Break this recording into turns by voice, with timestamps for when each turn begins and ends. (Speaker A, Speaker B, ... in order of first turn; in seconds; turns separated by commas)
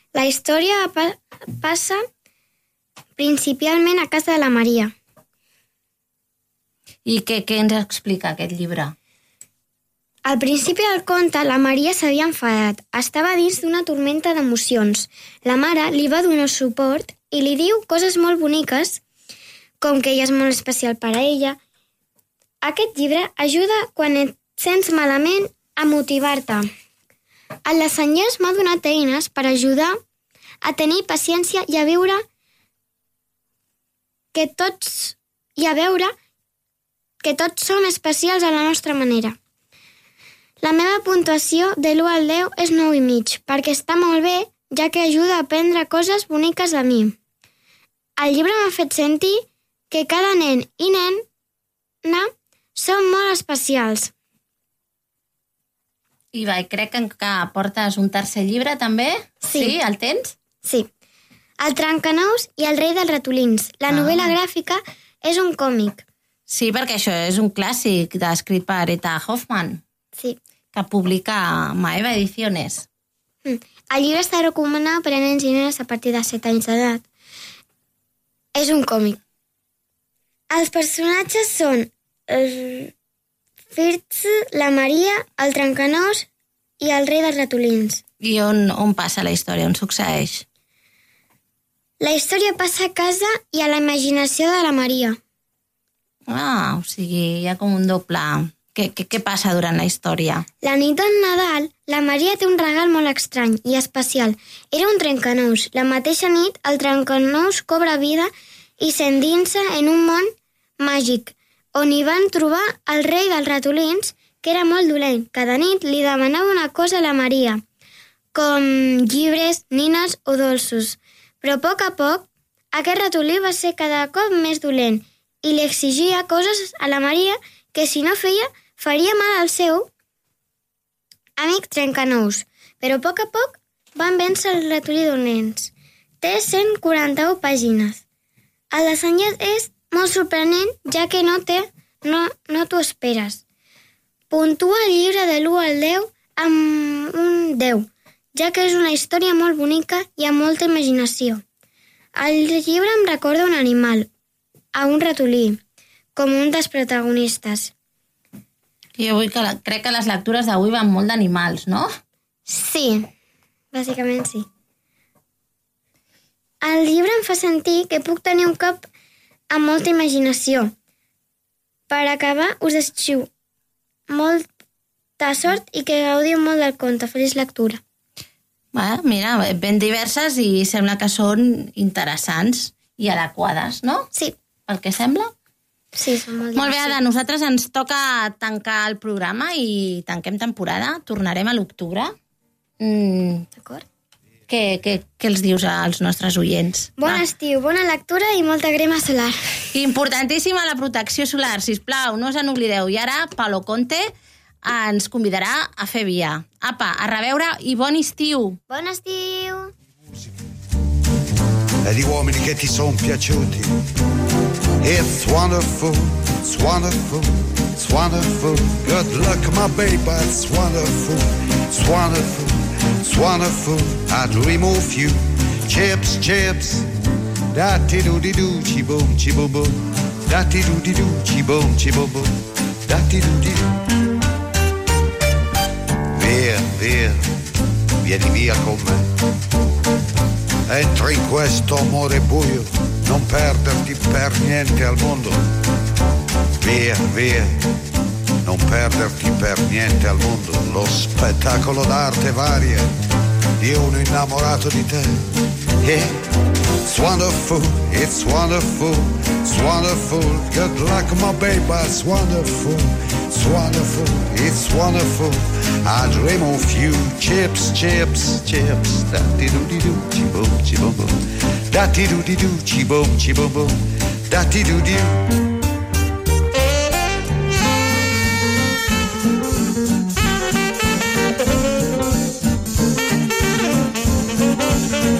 Speaker A: 0.1-2.0, Speaker A: 3.2-4.9, Speaker B: 7.0-8.9, Speaker A: 10.2-19.0, Speaker A: 19.8-21.6, Speaker A: 22.6-26.7, Speaker A: 27.6-30.0, Speaker A: 30.6-32.2, Speaker A: 34.3-36.1, Speaker A: 37.2-39.4, Speaker A: 40.6-47.1, Speaker A: 48.2-51.2, Speaker A: 52.0-54.1, Speaker B: 56.3-60.4, Speaker A: 59.4-59.8, Speaker A: 60.6-60.9, Speaker A: 61.6-66.0, Speaker B: 63.9-64.3, Speaker B: 66.5-69.8, Speaker B: 70.7-72.9, Speaker A: 73.4-77.0, Speaker A: 78.5-79.2, Speaker A: 80.5-82.9, Speaker A: 83.7-86.3, Speaker A: 86.8-88.0, Speaker B: 88.2-90.4, Speaker A: 92.0-95.2, Speaker B: 96.3-100.5, Speaker A: 100.6-110.3, Speaker A: 110.8-117.6, Speaker A: 118.3-129.9, Speaker A: 131.4-138.0, Speaker A: 138.7-143.4, Speaker A: 144.3-151.4, Speaker A: 152.2-154.1, Speaker A: 154.7-155.6, Speaker A: 156.2-157.7, Speaker B: 158.9-161.9, Speaker A: 162.5-163.1, Speaker A: 163.7-164.4, Speaker A: 166.6-168.8, Speaker A: 169.5-170.7, Speaker A: 171.9-173.3, Speaker A: 174.1-174.5, Speaker A: 175.2-177.8, Speaker B: 178.7-184.1, Speaker B: 184.7-185.3, Speaker A: 185.9-187.0, Speaker B: 186.5-192.1, Speaker B: 192.8-193.5, Speaker A: 193.6-193.8, Speaker B: 194.5-197.2, Speaker A: 197.0-199.5, Speaker B: 199.7-204.1, Speaker B: 204.6-208.6, Speaker A: 208.7-209.7, Speaker C: 211.8-213.7, Speaker C: 214.8-226.8, Speaker C: 227.5-229.8, Speaker C: 230.3-232.3, Speaker C: 232.9-233.7, Speaker C: 236.1-237.2, Speaker C: 238.0-239.1, Speaker C: 240.7-245.4, Speaker C: 246.6-247.6, Speaker C: 248.4-252.8, Speaker C: 253.6-255.2, Speaker C: 255.8-256.1, Speaker C: 256.8-271.1, Speaker C: 271.7-273.8, Speaker C: 274.3-275.1